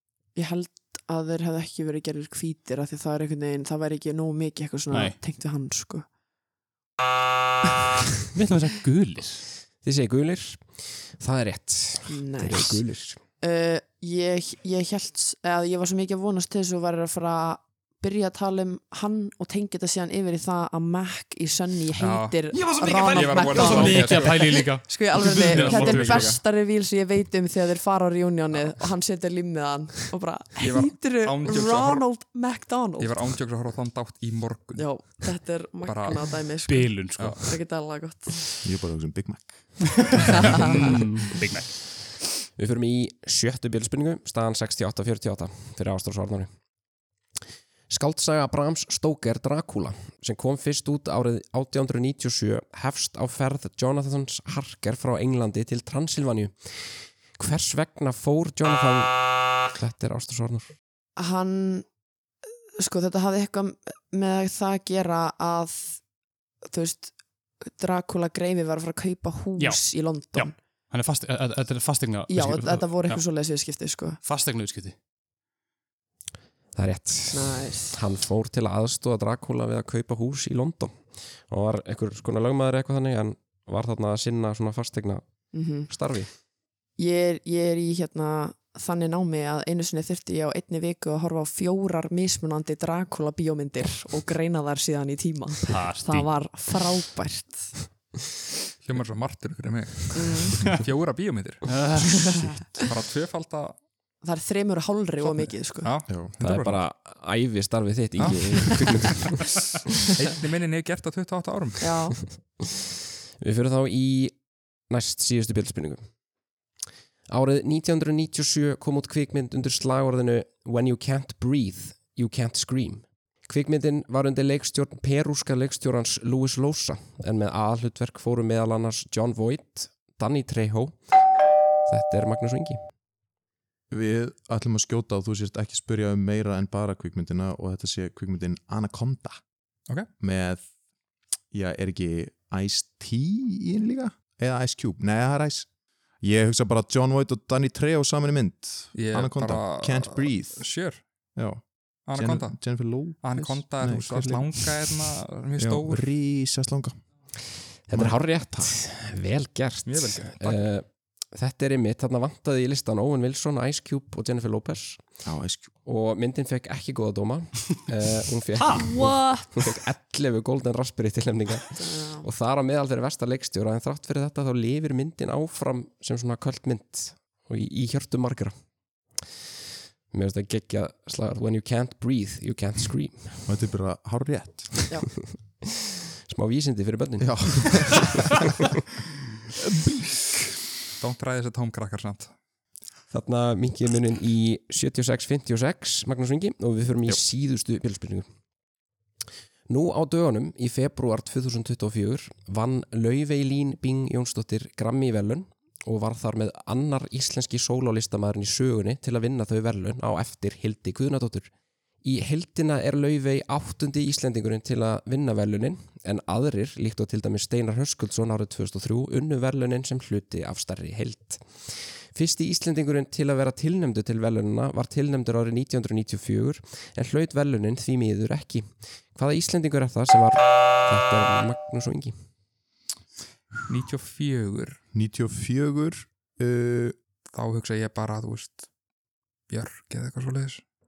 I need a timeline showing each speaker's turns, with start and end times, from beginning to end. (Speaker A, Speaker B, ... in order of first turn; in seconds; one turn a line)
Speaker A: 0.3-6.1
Speaker B: 4.9-5.2
Speaker B: 8.3-9.4
Speaker C: 9.8-13.2
Speaker A: 12.1-12.8
Speaker A: 13.4-33.2
Speaker D: 22.0-22.4
Speaker B: 22.5-26.4
Speaker D: 23.0-26.4
Speaker D: 30.6-32.1
Speaker D: 33.0-35.1
Speaker A: 34.8-38.6
Speaker D: 35.8-36.3
Speaker B: 36.7-37.5
Speaker E: 38.6-40.0
Speaker B: 40.2-41.8
Speaker A: 40.3-40.8
Speaker D: 40.5-40.9
Speaker C: 42.6-46.5
Speaker C: 47.9-60.7
Speaker A: 61.2-61.9
Speaker A: 62.8-66.0
Speaker A: 66.6-70.5
Speaker B: 69.6-73.2
Speaker A: 72.3-74.2
Speaker B: 74.2-74.9
Speaker C: 76.7-86.3
Speaker A: 77.3-78.0
Speaker A: 85.5-85.9
Speaker A: 87.0-97.7
Speaker B: 95.6-96.4
Speaker D: 98.8-101.7
Speaker A: 100.1-100.6
Speaker B: 101.6-102.6
Speaker A: 102.1-102.6
Speaker D: 102.8-103.8
Speaker A: 104.2-105.9
Speaker D: 105.8-106.8
Speaker C: 106.4-109.7
Speaker D: 108.2-109.2
Speaker D: 110.1-111.9
Speaker A: 111.8-112.2
Speaker C: 113.4-116.0
Speaker C: 117.3-131.0
Speaker C: 131.9-132.8
Speaker E: 133.9-139.4
Speaker E: 140.2-140.6
Speaker E: 141.5-145.7
Speaker E: 146.2-150.7
Speaker D: 148.9-151.0
Speaker E: 151.3-154.9
Speaker D: 152.0-156.1
Speaker E: 155.6-156.9
Speaker C: 157.9-165.2
Speaker E: 157.9-158.7
Speaker D: 159.8-160.7
Speaker E: 165.2-165.7
Speaker C: 165.8-178.5
Speaker B: 168.6-169.3
Speaker A: 168.9-169.4
Speaker A: 171.8-172.2
Speaker C: 180.1-183.5
Speaker E: 183.4-184.8
Speaker C: 185.3-188.5
Speaker E: 187.2-188.3
Speaker D: 191.0-192.3
Speaker C: 193.1-198.2
Speaker C: 199.7-211.5
Speaker C: 212.0-232.1
Speaker D: 233.7-234.8
Speaker E: 234.9-236.9
Speaker D: 237.3-238.7
Speaker D: 239.5-240.6